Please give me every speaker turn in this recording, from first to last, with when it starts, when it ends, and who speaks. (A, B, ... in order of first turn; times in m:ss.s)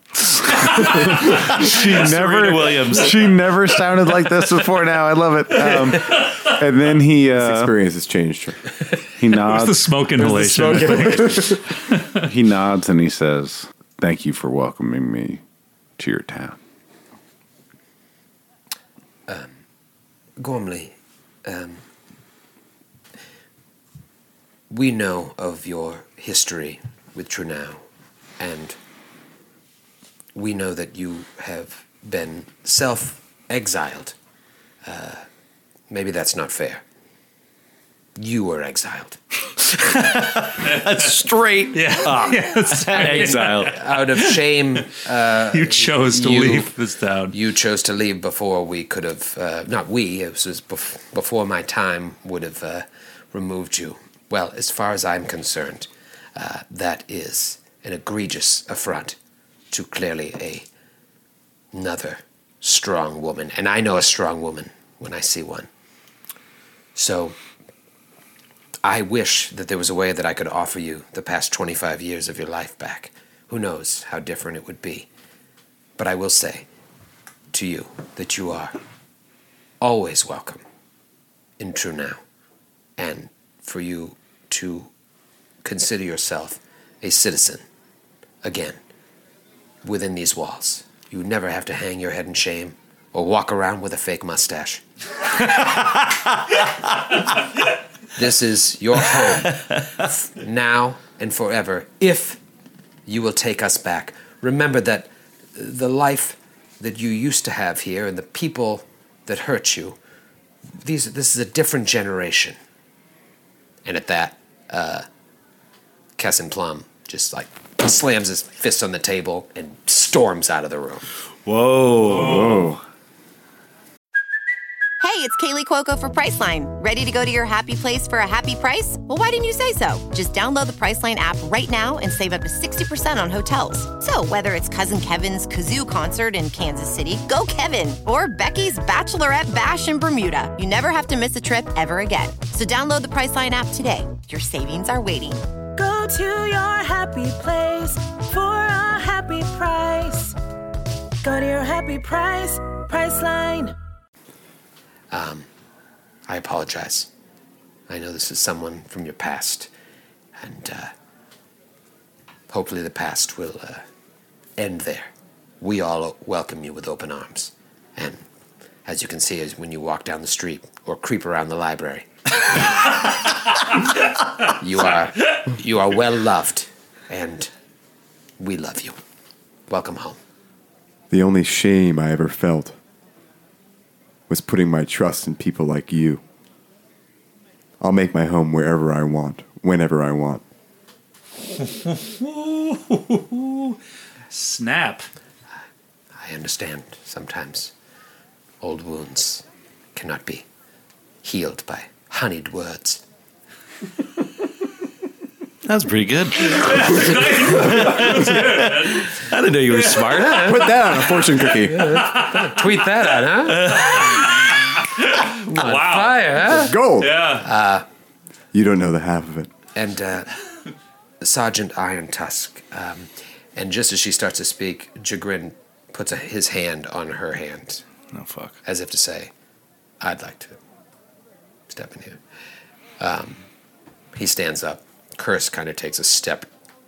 0:01.5-0:03.3 A
0:01.5-0:07.7 B
0:07.3-0:08.6 C
0:09.2-0:10.0 B
0:09.4-0:12.2 D
0:10.1-0:11.6 C
0:12.2-0:15.4 B
0:16.0-0:16.6 B
0:19.3-0:19.5 E
0:20.4-0:21.8 E
0:24.7-0:27.8 E
0:28.4-0:28.8 E
0:30.4-0:34.2 E
0:34.8-0:35.2 E
0:35.9-0:36.8 E
0:38.2-0:39.2 E
0:39.8-0:43.8 A
0:41.7-0:43.8 D
0:43.0-0:46.7 E
0:45.5-0:47.4 D
0:47.3-0:59.2 E
0:59.7-1:00.7 E
1:01.7-1:05.7 E
1:07.0-1:07.4 E
1:08.8-1:15.1 E
1:16.0-1:16.7 E
1:17.5-1:18.8 E
1:19.8-1:20.6 E
1:21.6-1:22.2 E
1:23.0-1:24.9 E
1:25.6-1:27.6 E
1:28.4-1:28.8 E
1:29.8-1:34.8 E
1:38.2-1:42.4 E
1:43.1-1:50.0 E
1:50.8-1:52.6 E
1:53.8-1:55.1 E
1:56.2-2:01.1 E
2:01.4-2:02.8 A
2:02.1-2:02.8 C
2:05.0-2:25.4 F
2:25.8-2:30.4 G
2:31.2-2:33.8 G
2:35.1-2:35.5 E
2:36.3-2:37.1 E
2:37.9-2:39.7 E
2:40.4-2:40.9 E
2:42.5-2:43.8 E
2:44.6-2:48.2 E
2:48.9-2:52.6 E
2:54.5-2:57.5 E
2:58.4-2:59.0 E
2:59.7-3:00.2 E
3:01.1-3:02.8 C
3:04.3-3:06.2 C
3:07.8-3:10.4 C
3:11.8-3:13.8 D
3:14.3-3:15.1 D
3:16.2-3:17.7 E
3:18.6-3:20.5 E
3:21.2-3:23.0 E
3:25.6-3:30.9 A
3:26.5-3:29.1 D
3:30.1-3:30.6 E
3:30.4-3:32.1 C
3:31.8-3:34.2 E
3:31.9-3:32.6 D
3:34.0-3:34.2 D
3:35.0-3:36.2 D
3:35.5-3:36.8 E
3:36.6-3:37.2 C
3:37.0-3:37.5 D
3:37.4-3:37.8 E
3:38.5-3:39.5 C
3:39.8-3:40.3 E
3:41.2-3:47.8 E
3:48.1-3:48.6 A
3:48.6-3:49.3 E
3:50.0-3:50.6 E
3:51.7-3:52.2 E
3:53.0-3:53.4 E
3:54.1-3:56.5 E